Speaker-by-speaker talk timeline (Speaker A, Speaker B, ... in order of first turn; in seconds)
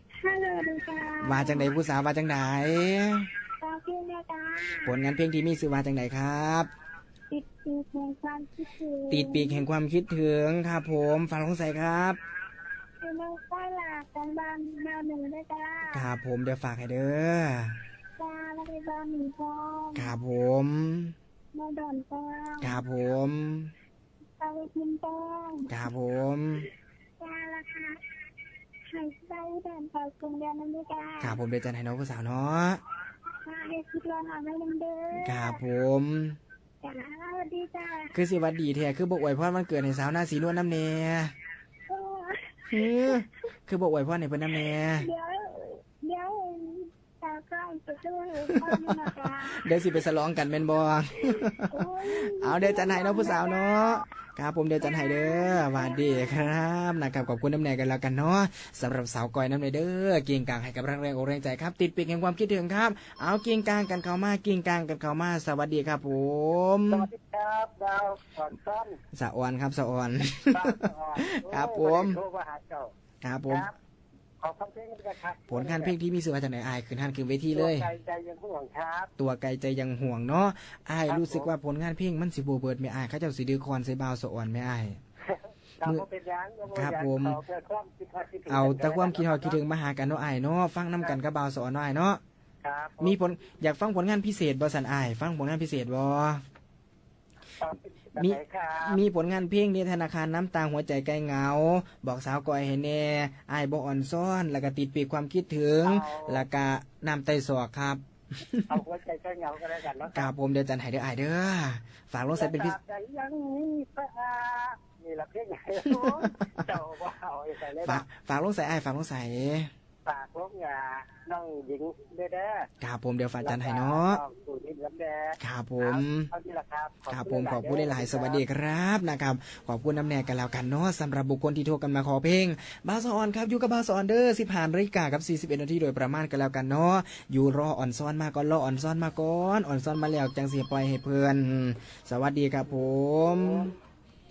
Speaker A: 0.2-1.7, 3.6-4.9, 7.3-9.6, 13.0-16.0, 18.2-20.1, 21.5-22.8, 24.4-25.7, 27.2-28.0, 28.9-31.4, 33.4-35.6, 36.8-38.1, 41.9-43.2, 45.0-50.0, 51.6-54.0, 54.8-56.5
Speaker B: 1.2-3.3, 4.8-6.7, 9.1-12.2, 15.9-17.8, 19.9-21.1, 22.6-23.7, 25.7-26.7, 31.2-32.8, 35.2-36.4, 38.1-41.3, 42.7-45.1, 48.4-67.1, 69.1-72.2, 73.2-73.7, 75.5-77.9, 79.2-85.0, 86.7-87.4, 88.5-92.2, 93.0-96.4, 98.2-108.7, 110.1-112.8, 115.8-116.6, 117.8-119.7, 122.8-124.2, 125.4-126.3, 127.1-143.7
Speaker C: 66.9-68.9, 70.5-72.9, 74.4-75.9, 77.5-79.1, 81.1-81.5, 85.9-89.6, 92.6-92.9, 97.7-99.0, 105.8-106.3, 108.7-110.1, 112.3-118.0, 120.0-122.7, 123.4-128.4